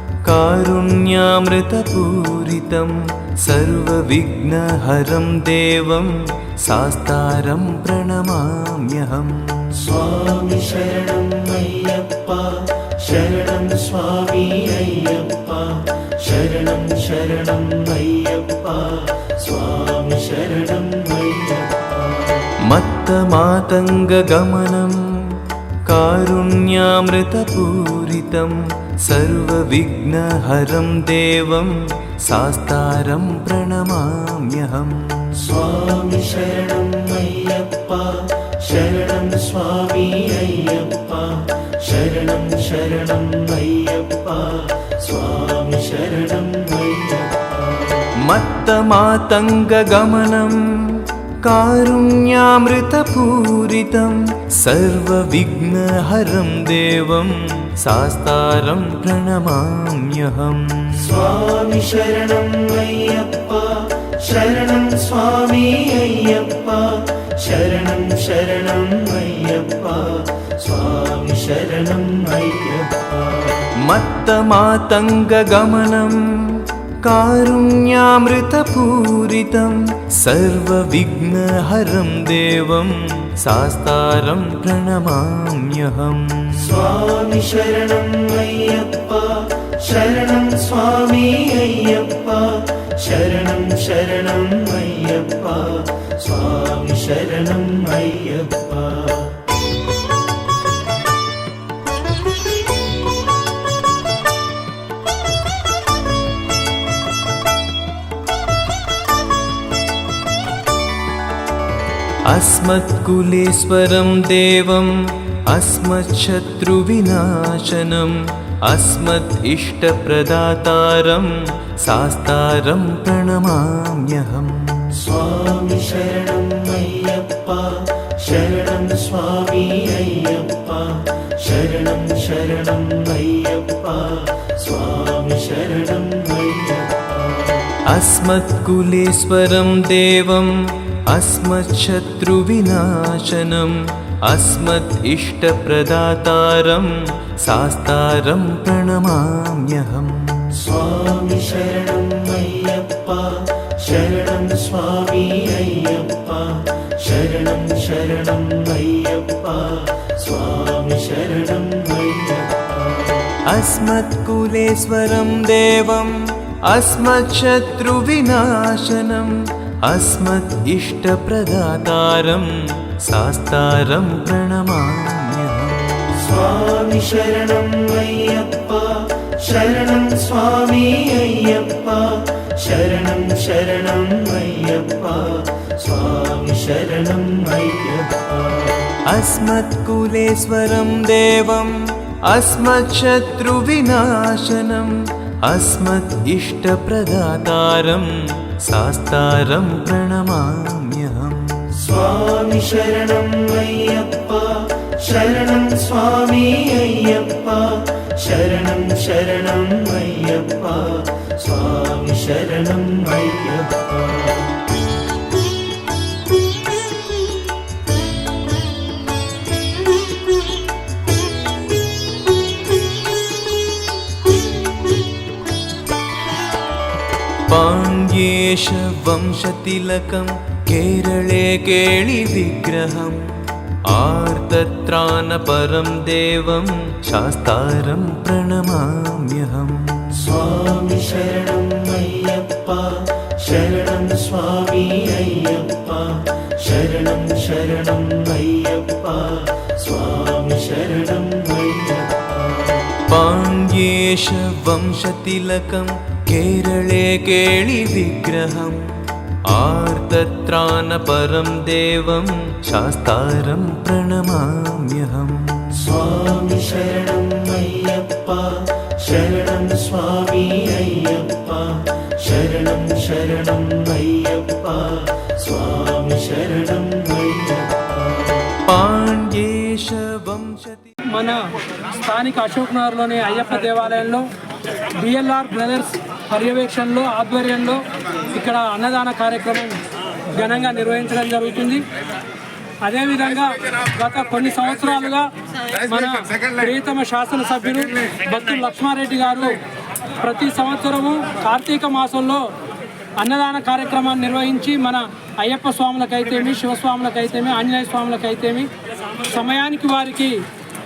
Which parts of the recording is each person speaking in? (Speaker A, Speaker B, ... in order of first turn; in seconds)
Speaker A: 0.3-9.8, 22.7-25.0, 25.9-35.4, 48.3-50.6, 51.4-61.2, 73.9-86.9, 112.3-115.0, 115.5-118.2, 118.7-121.3, 121.8-124.9, 137.9-140.6, 141.1-143.8, 144.3-150.5, 163.5-166.2, 166.7-169.3, 169.9-172.5, 173.0-175.9, 189.1-191.7, 192.3-194.9, 195.5-198.1, 198.6-201.5, 227.5-233.2, 233.9-240.2, 253.1-258.8, 259.5-265.9, 278.7-280.9
Speaker B: 9.8-22.5, 35.4-48.0, 61.0-73.6, 86.7-99.4, 125.0-137.7, 150.6-163.2, 176.2-188.8, 201.8-214.5, 240.2-252.8, 265.8-278.4
Speaker C: 281.1-281.4, 281.9-284.2, 285.0-287.8, 288.3-289.8, 290.3-291.8, 292.8-295.3, 295.8-299.6, 300.2-302.4, 303.2-308.7, 309.3-310.4